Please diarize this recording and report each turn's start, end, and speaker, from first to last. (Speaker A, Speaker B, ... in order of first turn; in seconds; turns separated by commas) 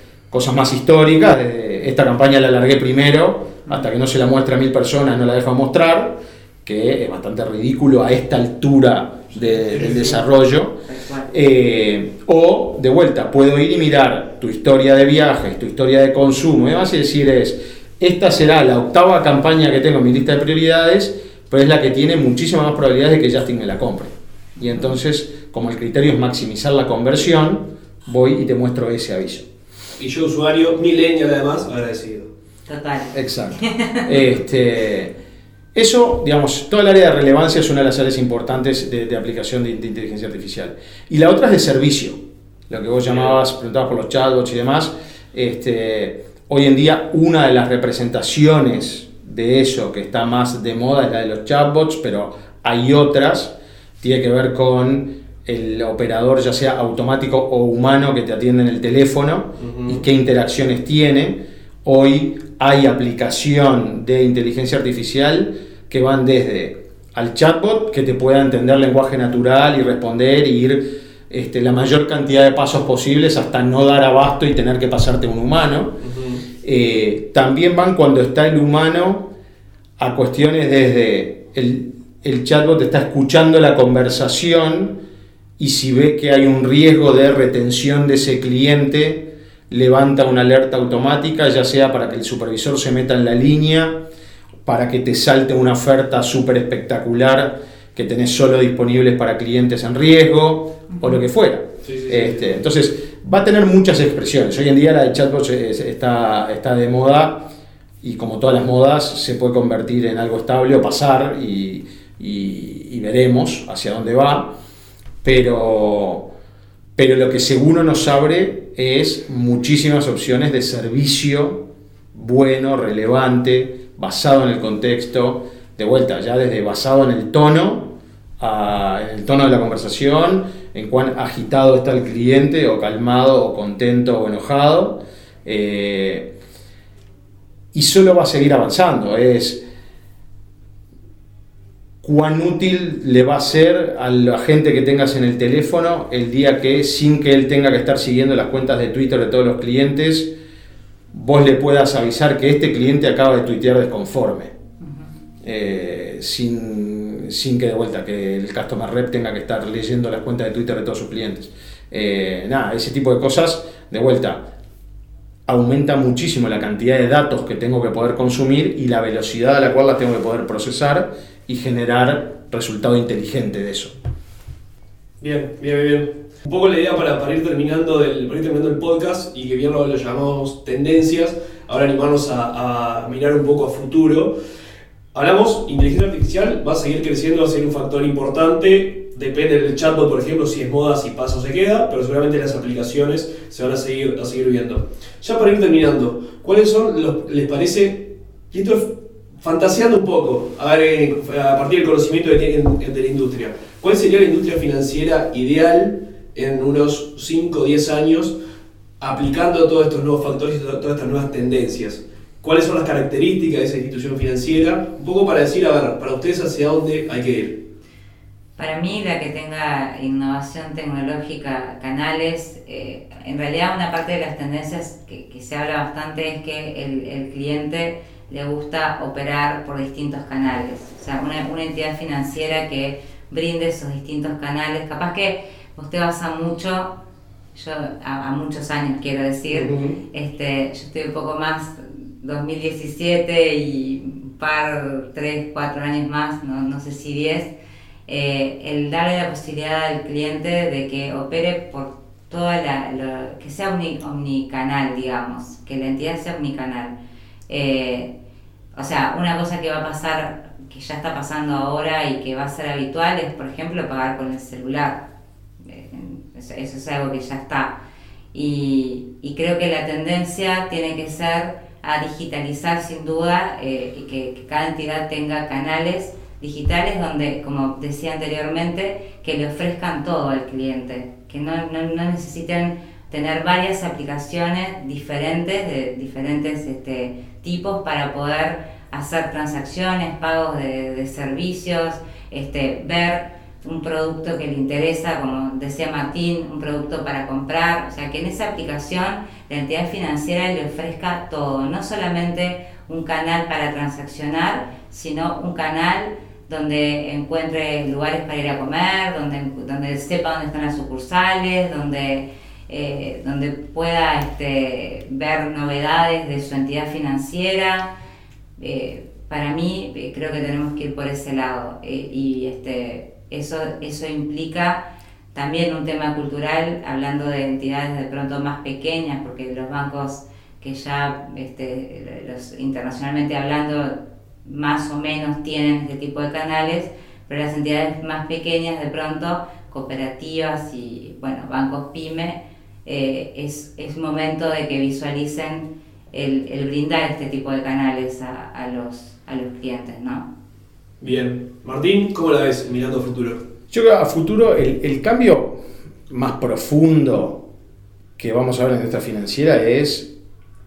Speaker A: 0.3-29.5, Speaker B: 9.7-10.2, Speaker C: 10.9-11.3, Speaker B: 30.0-32.3, Speaker C: 32.7-34.1, Speaker A: 33.1-35.1, Speaker A: 35.7-42.2, Speaker A: 42.7-76.0, Speaker B: 43.1-43.3, Speaker B: 59.6-60.0, Speaker B: 76.0-76.4, Speaker A: 76.6-79.3, Speaker A: 80.0-85.0, Speaker A: 85.6-94.0, Speaker A: 94.6-107.5, Speaker B: 101.8-102.6, Speaker A: 108.0-114.5, Speaker A: 115.2-116.3, Speaker A: 117.0-121.6, Speaker A: 122.1-136.3, Speaker A: 137.7-139.6, Speaker A: 142.0-150.3, Speaker A: 151.1-154.5, Speaker A: 155.4-164.4, Speaker A: 165.5-173.9, Speaker B: 175.2-184.3, Speaker B: 185.1-208.3, Speaker B: 209.0-217.6, Speaker C: 218.6-236.9, Speaker C: 237.5-247.5, Speaker B: 239.5-240.0, Speaker C: 248.1-256.9, Speaker C: 257.5-258.1, Speaker C: 258.7-265.0, Speaker C: 265.6-267.8, Speaker C: 268.3-317.9, Speaker C: 318.6-350.3, Speaker B: 351.0-353.4, Speaker A: 353.7-355.6, Speaker A: 356.1-357.4, Speaker A: 358.2-360.1